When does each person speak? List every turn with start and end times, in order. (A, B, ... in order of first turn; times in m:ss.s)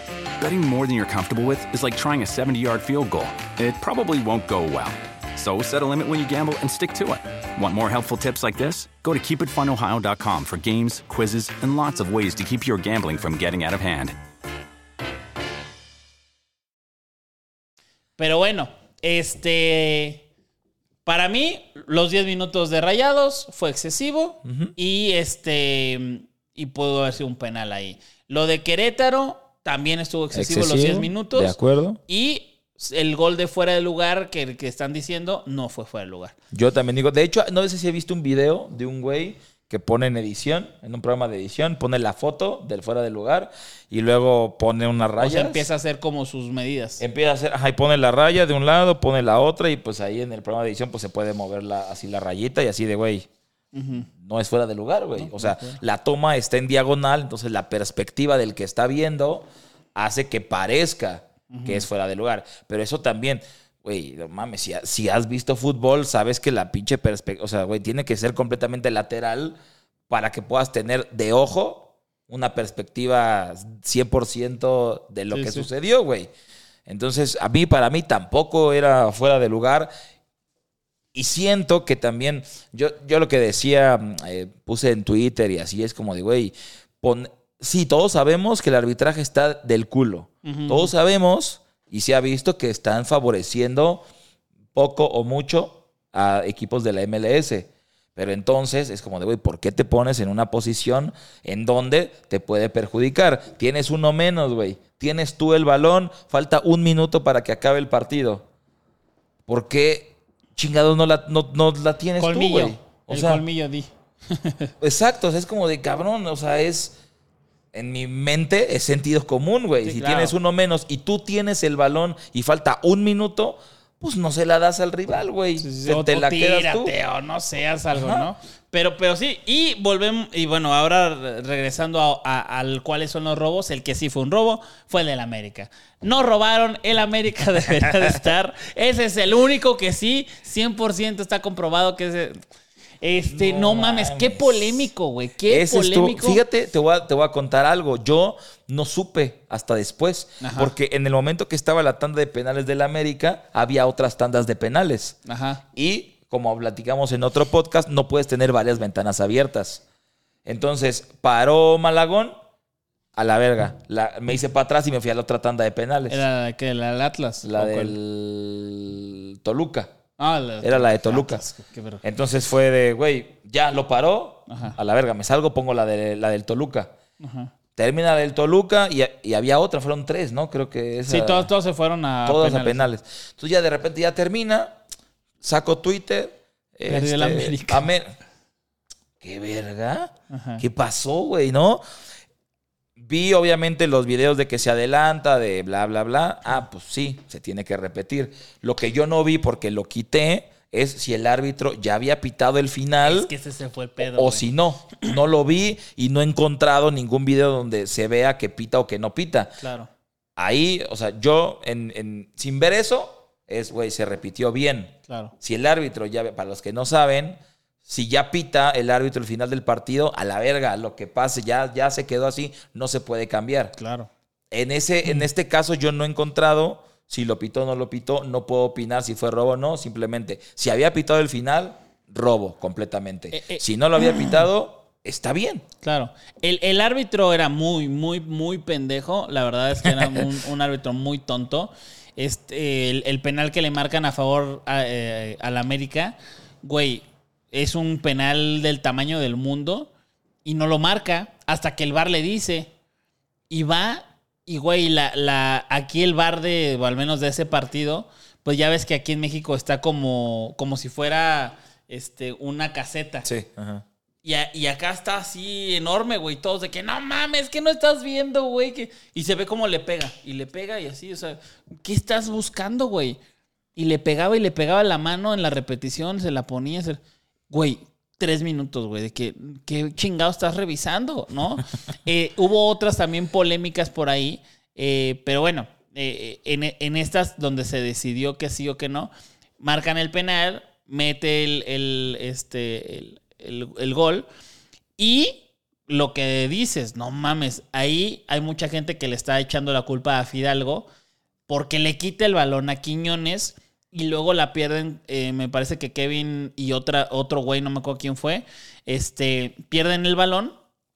0:00.4-0:14.1 A
0:18.2-0:20.2 B
0:21.0-0:31.6 B
0:24.4-0:24.7 C
0:30.3-0:32.0 C
0:32.1-0:36.3 B
0:36.5-0:45.6 C
0:45.2-0:47.0 B
0:47.0-0:53.3 C
0:53.7-0:54.1 B
0:53.9-1:09.6 C
0:55.2-0:55.8 B
1:01.5-1:01.8 B
1:10.1-1:16.3 C
1:15.3-1:15.7 B
1:16.9-1:19.9 C
1:21.1-1:34.0 C
1:30.4-1:30.9 B
1:34.7-1:48.4 C
1:49.5-1:53.4 C
1:52.2-1:54.7 B
1:54.8-1:56.9 C
1:57.7-2:06.9 C
1:59.8-2:00.3 B
2:05.6-2:22.4 B
2:07.9-2:08.3 C
2:17.8-2:18.1 C
2:23.0-2:26.4 B
2:23.3-2:24.9 C
2:25.5-2:35.2 C
2:30.4-2:30.7 B
2:35.2-2:35.6 B
2:35.7-2:39.8 C
2:40.4-2:42.3 C
2:43.1-2:46.2 C
2:46.1-2:47.9 B
2:47.4-2:49.9 C
2:50.2-2:52.0 B
2:50.6-2:51.4 C
2:52.0-2:56.9 C
2:54.5-2:54.8 B
2:57.2-2:57.5 B
2:57.8-3:01.5 C
3:01.1-3:02.8 B
3:02.2-3:04.8 C
3:05.4-3:08.1 C
3:06.9-3:07.9 B
3:09.2-3:11.8 C
3:10.3-3:10.6 B
3:13.0-3:23.3 C
3:23.0-3:24.4 B
3:24.0-3:29.6 C
3:29.6-3:29.9 B
3:30.4-3:43.7 C
3:35.1-3:35.3 B
3:43.8-3:44.1 B
3:44.5-3:55.6 C
3:53.3-3:54.3 B
3:55.8-4:09.9 B
4:10.4-4:12.7 B
4:13.5-4:23.3 B
4:23.2-4:23.8 C
4:24.2-4:33.2 B
4:33.8-4:54.3 B
4:55.0-5:00.8 B
5:01.5-5:10.5 B